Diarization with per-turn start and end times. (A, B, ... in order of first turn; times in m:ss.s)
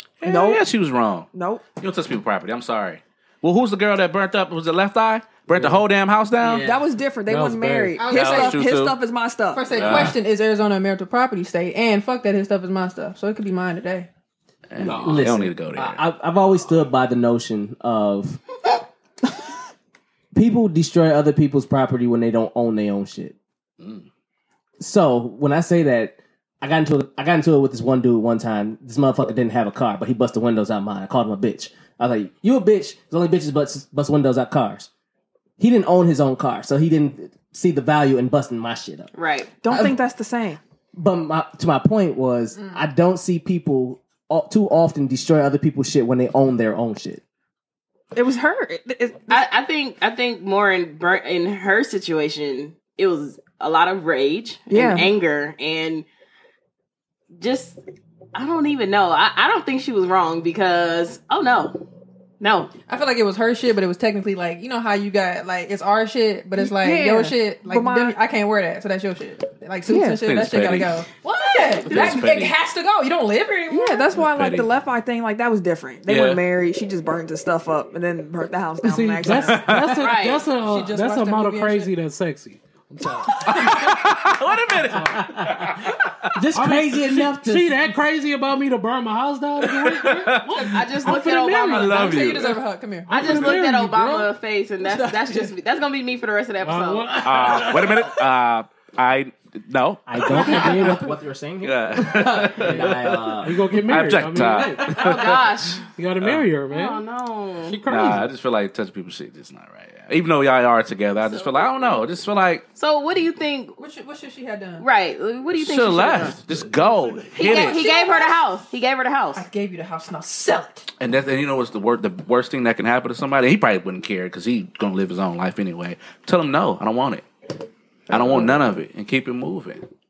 0:00.2-0:06.7 A
0:00.2-0:00.6 B
0:01.3-0:01.6 B
0:05.5-0:05.8 C
0:06.4-0:06.8 C
0:06.6-0:10.1 B
0:07.3-0:08.0 D
0:08.0-0:08.6 E
0:08.0-0:09.0 A
0:09.5-0:14.1 E
0:09.7-0:10.2 A
0:14.7-0:16.0 A
0:14.8-0:15.4 D
0:14.8-0:18.4 C
0:20.3-0:23.3 C
0:23.8-0:24.0 A
0:24.8-0:34.9 C
0:35.6-0:39.1 C
0:39.1-0:39.5 F
0:39.6-0:40.6 B
0:39.7-0:40.0 C
0:40.9-0:47.2 C
0:48.1-0:49.5 B
0:49.3-0:56.0 F
0:54.7-0:55.1 B
0:57.4-0:57.8 F
0:58.3-1:01.8 F
1:02.4-1:02.7 F
1:02.9-1:14.0 E
1:06.6-1:08.2 B
1:09.9-1:10.1 B
1:10.1-1:11.0 A
1:11.8-1:12.6 A
1:11.9-1:12.1 B
1:13.7-1:19.7 B
1:14.1-1:14.7 A
1:16.0-1:16.4 A
1:18.8-1:24.1 D
1:19.3-1:20.1 A
1:20.0-1:20.4 F
1:20.6-1:21.9 E
1:23.3-1:26.4 A
1:24.7-1:25.8 D
1:25.2-1:25.6 C
1:26.3-1:27.7 C
1:26.5-1:30.5 D
1:29.6-1:32.6 A
1:30.5-1:33.1 E
1:30.6-1:32.0 F
1:31.0-1:31.5 D
1:33.1-1:34.3 D
1:33.1-1:37.2 F
1:34.8-1:35.5 E
1:36.6-1:38.2 D
1:37.2-1:41.0 A
1:37.4-1:37.9 C
1:40.1-1:43.6 C
1:40.2-1:41.1 D
1:41.6-1:45.5 A
1:42.6-1:45.1 D
1:44.5-1:44.8 C
1:44.8-1:45.8 F
1:46.0-1:47.0 D
1:46.7-1:47.8 F
1:47.6-1:48.3 D
1:47.9-1:52.6 A
1:51.2-1:52.0 F
1:52.7-1:53.8 F
1:53.8-1:54.8 E
1:54.8-1:56.4 F
1:55.6-1:57.8 A
1:57.3-1:59.4 F
1:57.4-1:58.4 E
1:59.3-2:00.8 E
2:01.0-2:07.2 A
2:08.1-2:08.6 B
2:08.1-2:09.8 A